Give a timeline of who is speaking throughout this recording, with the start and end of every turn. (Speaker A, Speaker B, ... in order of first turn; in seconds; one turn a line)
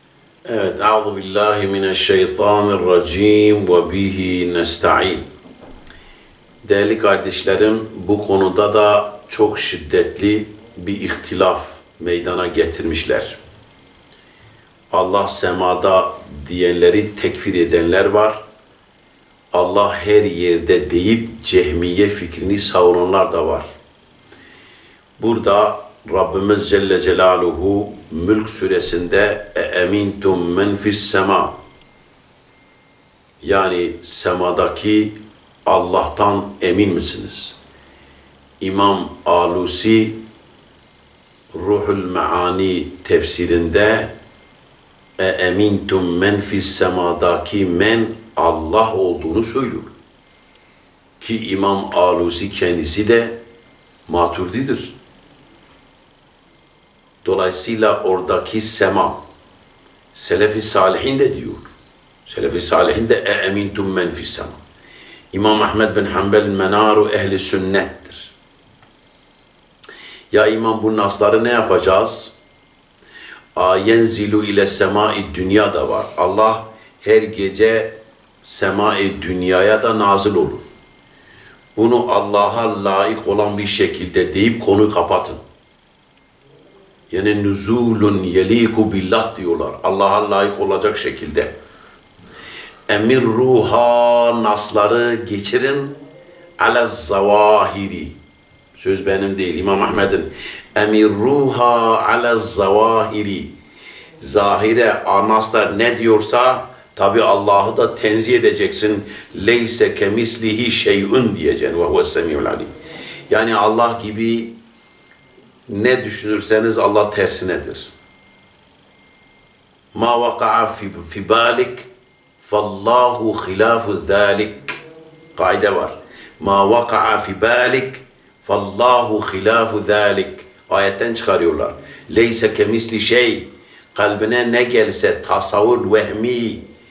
Speaker A: 0.5-5.2
Speaker A: 6.6-13.4
Speaker A: 14.9-18.4
Speaker A: 19.5-23.7
Speaker A: 25.2-31.6
Speaker A: 33.4-35.1
Speaker A: 35.7-37.6
Speaker A: 38.6-40.2
Speaker A: 41.5-44.1
Speaker A: 45.2-49.9
Speaker A: 51.2-53.4
Speaker A: 54.1-55.0
Speaker A: 57.2-59.2
Speaker A: 60.1-61.7
Speaker A: 62.3-64.6
Speaker A: 65.3-68.3
Speaker A: 70.3-72.3
Speaker A: 73.6-80.7
Speaker A: 81.8-85.4
Speaker A: 87.1-91.5
Speaker A: 92.9-96.0
Speaker A: 96.6-98.2
Speaker A: 98.8-103.5
Speaker A: 104.2-112.7
Speaker A: 113.3-114.5
Speaker A: 115.7-117.9
Speaker A: 119.9-121.9
Speaker A: 122.4-124.8
Speaker A: 125.4-136.6